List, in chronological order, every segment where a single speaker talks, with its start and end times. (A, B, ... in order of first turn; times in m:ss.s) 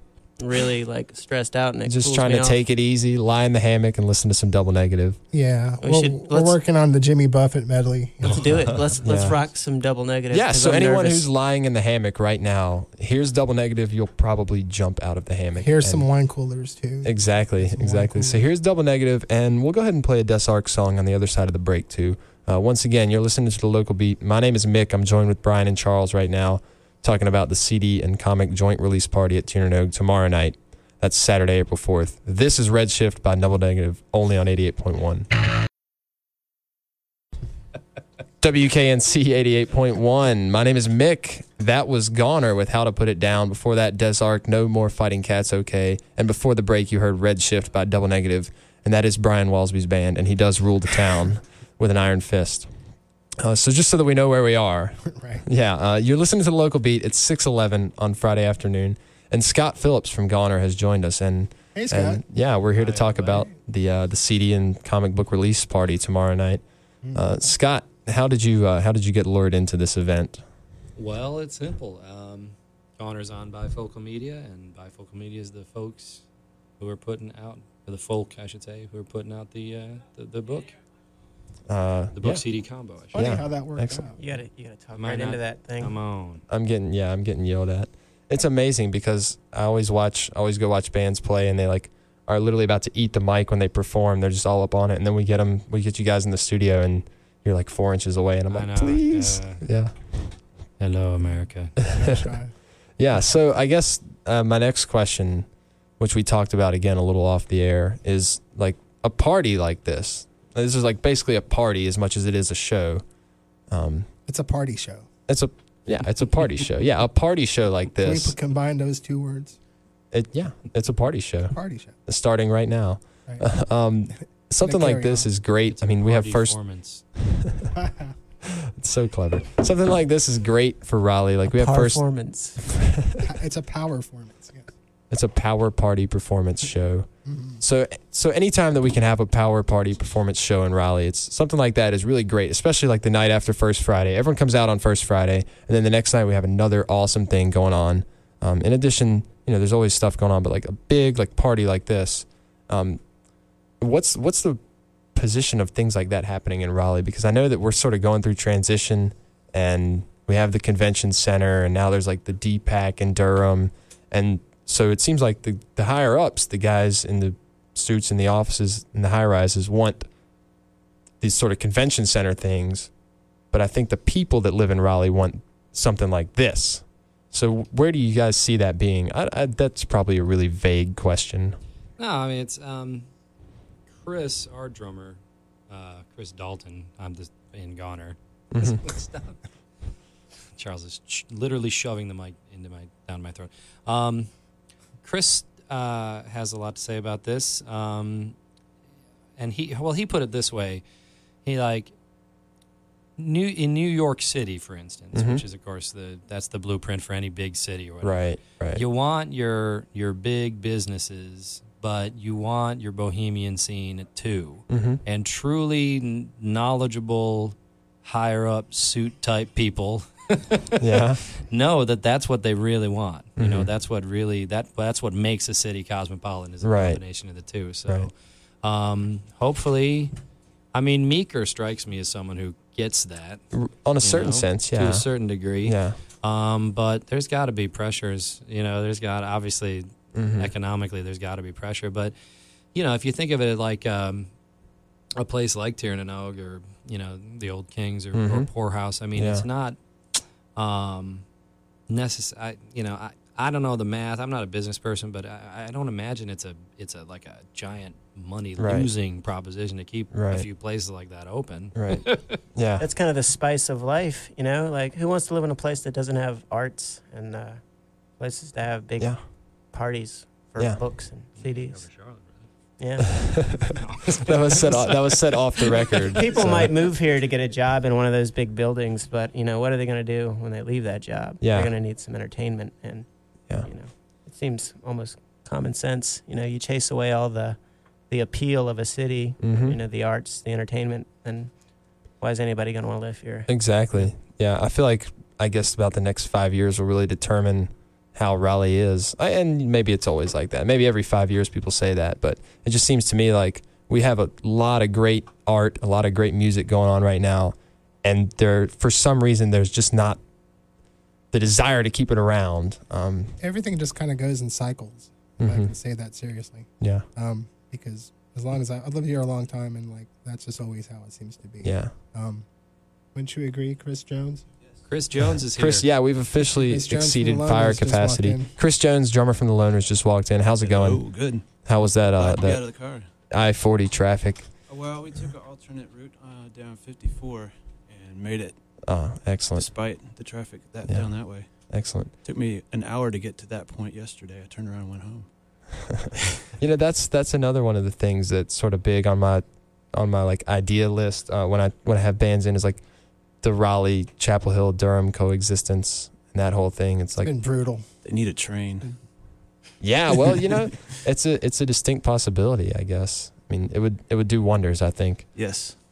0:00.4-0:02.6 A
0:01.9-0:05.2 B
0:05.3-0:09.0 C
0:05.8-0:06.6 A
0:08.2-0:11.3 A
0:09.0-0:09.4 B
0:10.3-0:16.0 B
0:15.6-0:18.4 C
0:17.0-0:35.3 B
0:38.4-0:52.7 B
0:53.4-1:06.6 B
0:55.1-0:55.4 C
1:01.7-1:02.2 C
1:02.8-1:03.5 D
1:07.2-1:10.4 B
1:11.0-1:16.2 D
1:16.8-1:20.8 D
1:21.7-1:22.4 B
1:22.2-1:23.2 D
1:23.1-1:24.2 C
1:23.2-1:24.0 B
1:24.2-1:26.0 A
1:25.0-1:26.4 D
1:26.5-1:40.3 B
1:38.5-1:39.6 D
1:40.8-1:41.8 D
1:41.9-1:42.5 C
1:41.9-1:42.3 B
1:43.0-1:45.5 B
1:46.0-1:53.0 B
1:53.7-1:54.1 B
1:54.3-1:55.1 C
1:55.3-1:58.3 B
1:58.0-1:59.6 C
2:00.1-2:06.6 B
2:01.5-2:02.0 C
2:04.6-2:05.3 C
2:05.7-2:07.0 D
2:07.2-2:07.7 B
2:07.8-2:08.1 C
2:08.4-2:12.0 B
2:11.5-2:12.6 A
2:12.6-2:13.2 B
2:13.2-2:14.7 C
2:15.1-2:17.1 B
2:17.2-2:17.6 C
2:17.6-2:33.0 B
2:33.8-2:34.6 B
2:35.2-2:50.1 B
2:51.2-2:52.9 B
2:53.5-3:01.6 B
3:02.0-3:03.1 D
3:04.0-3:09.4 D
3:08.5-3:08.8 B
3:10.6-3:14.3 D
3:15.0-3:18.4 D
3:19.4-3:20.8 D
3:21.4-3:21.9 D
3:23.2-3:40.8 D
3:25.1-3:25.4 B
3:28.0-3:28.8 B
3:34.7-3:35.0 B
3:40.8-3:41.2 B
3:41.4-3:50.1 D
3:43.4-3:43.7 B
3:46.6-3:47.0 B
3:50.7-3:53.4 D
3:53.5-3:55.0 B
3:54.0-4:02.1 D
3:55.6-3:56.0 B
4:00.1-4:00.5 B
4:02.7-4:04.3 D
4:05.2-4:09.8 D
4:08.1-4:08.5 B
4:09.2-4:09.4 B
4:10.6-4:11.2 D
4:11.9-4:22.4 D
4:18.6-4:18.9 B
4:20.1-4:20.5 B
4:21.8-4:22.8 B
4:22.8-4:27.6 A
4:28.2-4:29.2 A
4:29.7-4:31.8 A
4:31.4-4:32.5 D
4:32.8-4:33.1 A
4:33.2-4:36.7 B
4:33.6-4:36.3 D
4:36.1-4:43.1 A
4:41.4-4:41.7 B
4:43.6-4:47.6 A
4:48.1-4:51.5 A
4:49.4-4:49.8 B
4:52.2-4:53.5 A
4:53.5-5:10.2 B
5:11.3-5:13.3 B
5:13.4-5:22.5 C
5:15.4-5:15.7 B
5:21.6-5:21.9 B
5:23.1-5:24.4 C
5:24.9-5:25.9 D
5:25.6-5:32.7 B
5:26.5-5:28.5 C
5:30.6-5:31.6 E
5:32.2-5:33.1 E
5:33.3-5:34.5 B
5:34.7-5:38.6 E
5:38.9-5:39.7 B
5:39.6-5:41.5 E
5:41.7-5:42.1 B
5:42.2-5:45.3 E
5:46.6-5:52.8 B
5:53.4-5:57.3 B
5:57.2-5:57.9 C
5:58.0-5:59.0 E
5:59.8-6:05.3 B
6:05.4-6:05.8 E